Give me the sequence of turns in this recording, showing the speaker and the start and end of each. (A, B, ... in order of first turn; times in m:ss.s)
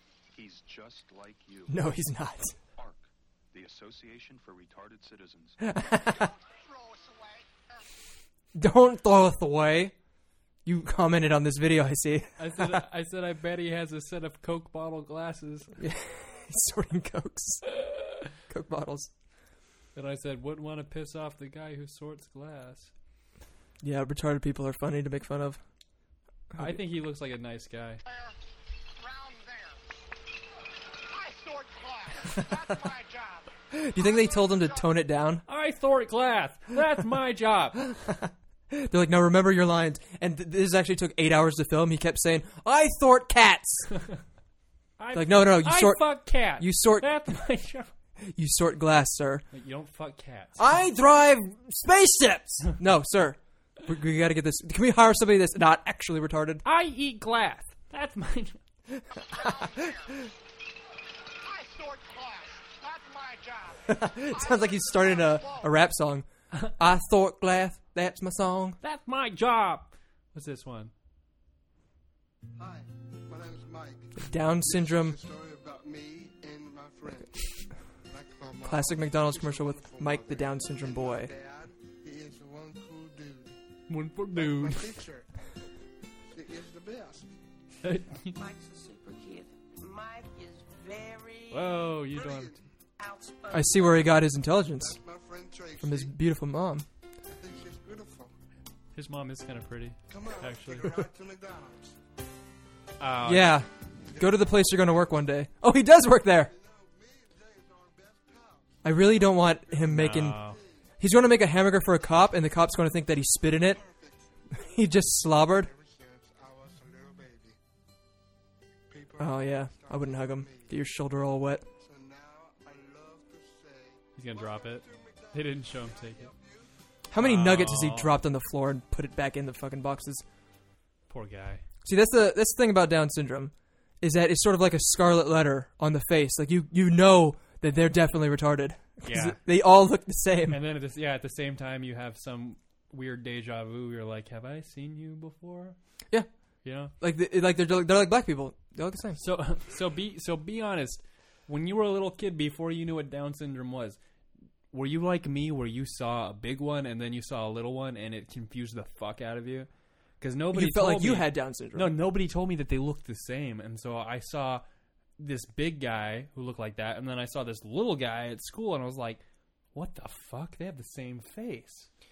0:00.3-0:01.9 A
0:01.7-0:02.6 B
0:02.8-0:05.6 A
0:05.6-0:06.3 B
0:06.1-0:07.9 C
0:08.6-0:10.0 B
0:10.6-0:12.8 B
0:12.4-0:15.8 D
0:15.8-0:17.7 B
0:18.4-0:19.1 B
0:19.9-0:22.9 D
0:23.8-0:25.6 B
0:26.6-0:28.0 D
0:28.1-0:28.4 C
0:29.0-0:29.8 C
0:31.1-0:34.9 C
0:33.7-0:35.4 B
0:35.5-0:38.0 D
0:38.2-0:44.0 B
0:45.0-0:47.9 D
0:45.1-0:47.4 B
0:48.2-0:49.5 B
0:49.5-0:50.7 D
0:50.6-0:56.6 B
0:56.6-0:58.6 D
0:59.0-0:59.8 B
0:59.2-1:00.3 C
1:01.4-1:05.7 C
1:03.9-1:08.8 B
1:08.8-1:10.9 D
1:12.6-1:17.5 E
1:14.2-1:15.2 B
1:18.0-1:23.6 E
1:18.6-1:21.3 B
1:23.9-1:25.0 D
1:24.3-1:25.3 E
1:26.3-1:27.3 E
1:27.8-1:28.4 D
1:28.3-1:31.9 F
1:31.5-1:32.6 D
1:32.0-1:32.6 E
1:33.0-1:34.0 F
1:33.5-1:35.0 B
1:34.7-1:36.1 E
1:35.8-1:36.8 B
1:37.3-1:38.3 E
1:38.9-1:40.9 D
1:40.1-1:42.0 E
1:43.0-1:43.6 D
1:43.2-1:46.5 B
1:44.2-1:44.6 E
1:46.5-1:50.8 E
1:48.8-1:50.4 B
1:49.9-1:50.6 D
1:51.0-1:53.8 B
1:53.6-1:54.3 E
1:54.5-1:55.7 B
1:55.5-1:57.6 E
1:58.9-2:00.8 E
1:59.2-2:01.6 B
2:01.8-2:06.7 E
2:04.2-2:06.3 D
2:07.1-2:10.2 B
2:07.2-2:08.2 D
2:11.1-2:11.6 D
2:11.8-2:20.6 B
2:19.0-2:19.4 D
2:20.5-2:25.8 D
2:26.6-2:26.9 D
2:26.8-2:29.2 B
2:29.2-2:34.0 D
2:34.7-2:44.6 D
2:40.5-2:41.9 B
2:45.2-2:49.2 D
2:49.7-2:51.9 D